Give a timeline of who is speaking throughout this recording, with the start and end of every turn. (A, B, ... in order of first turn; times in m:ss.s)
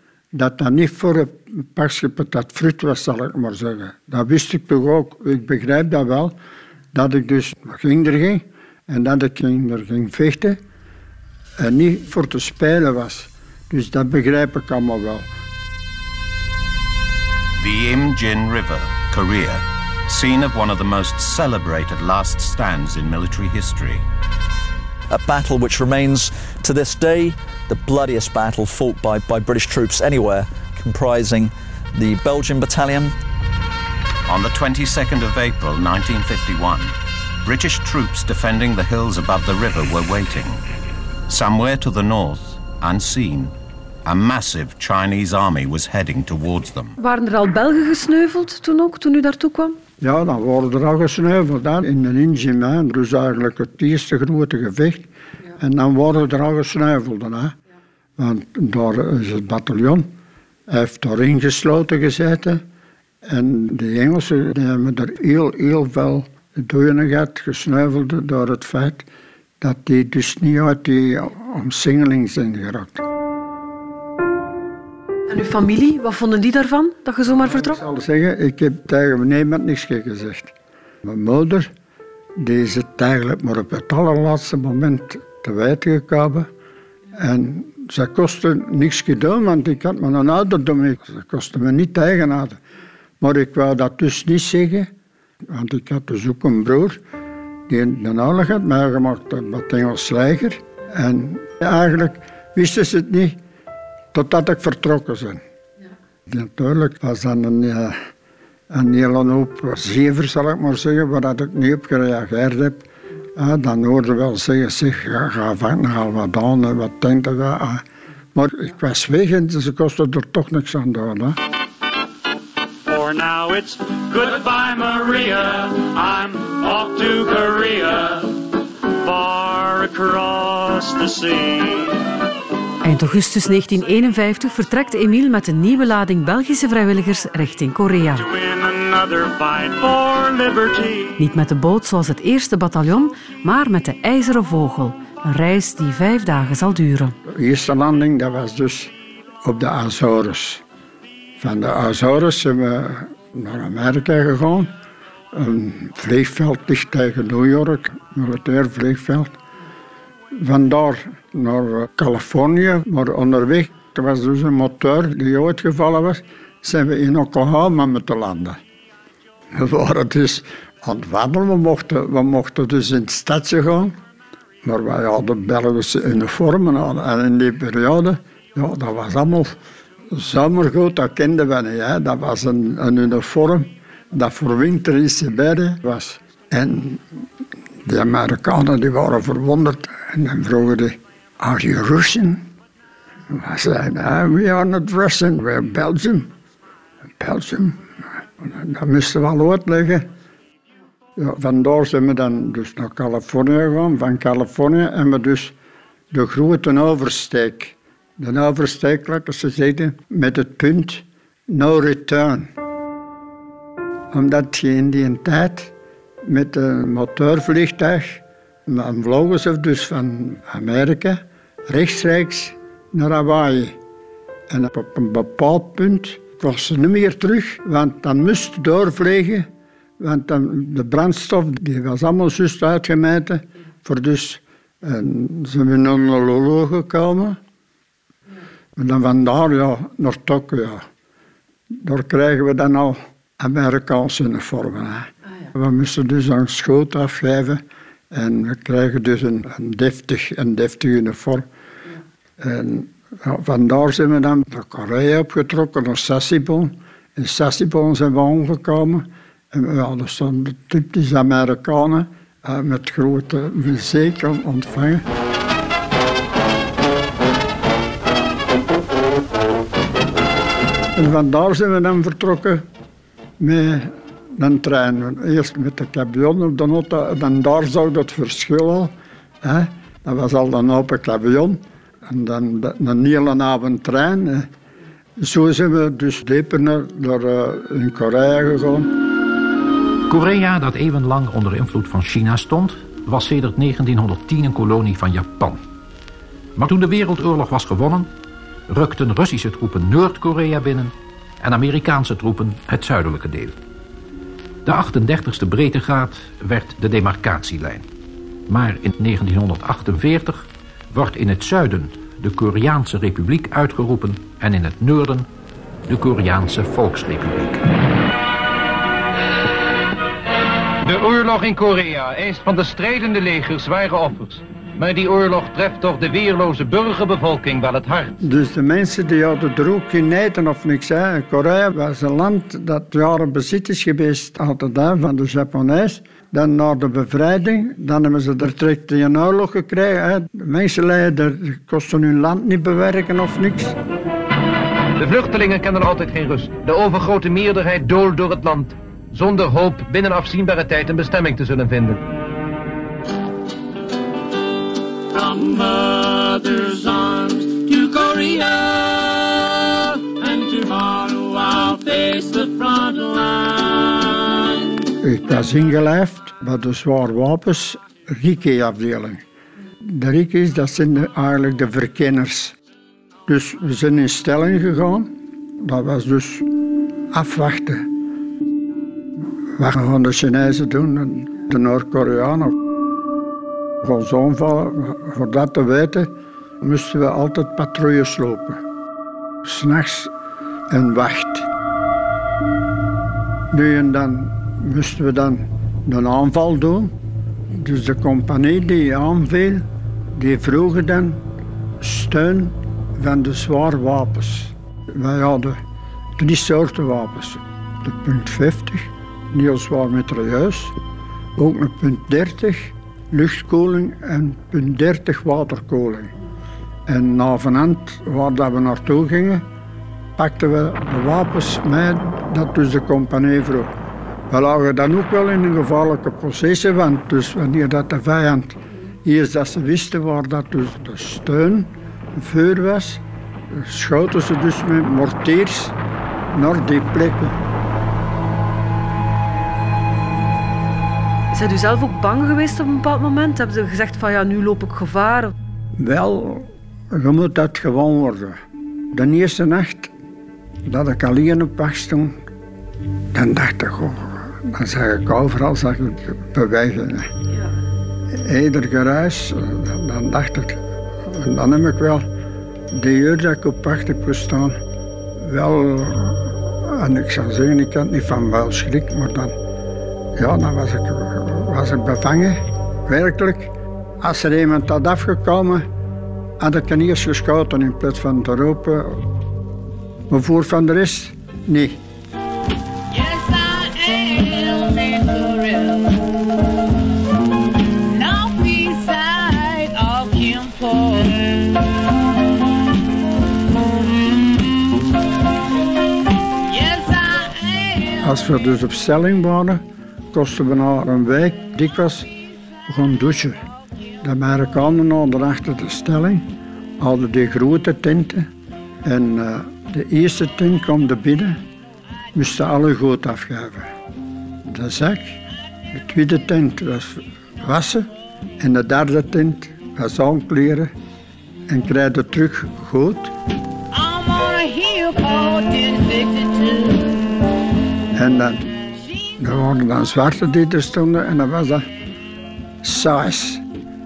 0:00.3-0:06.3 A
0:06.9-0:10.6 A
0:11.6-0:15.3 A
0:17.6-0:24.0 B
0:25.1-0:33.1 C
0:34.3-0:40.6 B
0:41.3-0:43.5 B
0:44.0-0:47.0 B
0:47.0-0:49.8 D
0:50.0-0:57.6 A
0:58.2-1:00.1 A
1:00.7-1:02.6 A
1:03.2-1:09.1 A
1:09.6-1:13.0 A
1:15.3-1:17.8 D
1:17.2-1:21.7 A
1:22.4-1:26.5 A
1:27.1-1:32.6 A
1:33.2-1:34.9 A
1:35.4-1:37.0 A
1:37.7-1:43.4 A
1:44.1-1:45.4 A
1:46.3-1:48.0 A
1:48.7-2:01.4 A
2:02.8-2:12.0 E
2:12.8-2:18.2 D
2:18.1-2:21.2 E
2:21.2-2:27.1 D
2:27.2-2:28.9 A
2:29.4-2:30.6 A
2:31.4-2:34.7 A
2:35.3-2:39.4 A
2:40.3-2:48.6 A
2:49.5-2:53.9 A
2:54.6-2:59.5 A
3:00.1-3:07.0 A
3:07.8-3:12.4 A
3:13.3-3:16.3 A
3:17.2-3:20.1 A
3:21.2-3:25.5 A
3:26.1-3:32.5 A
3:34.1-3:43.8 A
3:44.5-3:49.5 A
3:50.0-3:57.4 A
3:58.8-4:00.8 A
4:01.7-4:11.4 A
4:12.4-4:25.0 A
4:30.9-4:32.6 A
4:33.4-4:44.5 A
4:45.2-4:48.9 A
4:50.1-4:55.6 F
4:56.6-4:58.1 F
4:58.7-5:03.5 F
5:04.6-5:07.8 F
5:08.5-5:15.3 F
5:15.9-5:17.6 F
5:20.8-5:28.2 G
5:28.2-5:43.8 A
5:45.0-5:52.0 G
5:55.1-5:58.4 E
6:00.2-6:03.4 E
6:05.0-6:09.2 A
6:09.8-6:12.6 A
6:13.3-6:16.5 A
6:17.1-6:17.9 A
6:19.5-6:22.5 A
6:23.8-6:28.6 A
6:29.4-6:30.1 A
6:30.7-6:31.5 A
6:33.5-6:37.0 A
6:37.5-6:41.2 A
6:41.8-6:45.6 A
6:46.2-6:50.8 A
6:51.4-6:56.1 A
6:56.9-6:59.4 A
7:00.2-7:03.7 A
7:04.3-7:15.8 A
7:16.3-7:17.4 A
7:21.3-7:25.3 D
7:25.8-7:28.4 A
7:28.9-7:29.9 A
7:30.6-7:32.2 A
7:33.1-7:37.1 A
7:38.1-7:42.1 A
7:42.7-7:44.6 A
7:45.2-7:49.4 A
7:50.2-7:55.7 A
7:56.4-7:59.0 A
8:00.1-8:01.8 A
8:02.9-8:06.3 H
8:07.8-8:11.6 H
8:13.7-8:14.4 H
8:16.5-8:18.1 H
8:18.0-8:22.1 A
8:22.7-8:23.4 A
8:24.0-8:26.3 A
8:26.8-8:28.3 A
8:28.8-8:31.4 A
8:32.1-8:33.7 A
8:34.5-8:40.7 A
8:41.5-8:43.1 A
8:43.7-8:47.0 H
8:47.9-8:48.5 A
8:49.2-8:51.7 A
8:52.6-8:53.4 A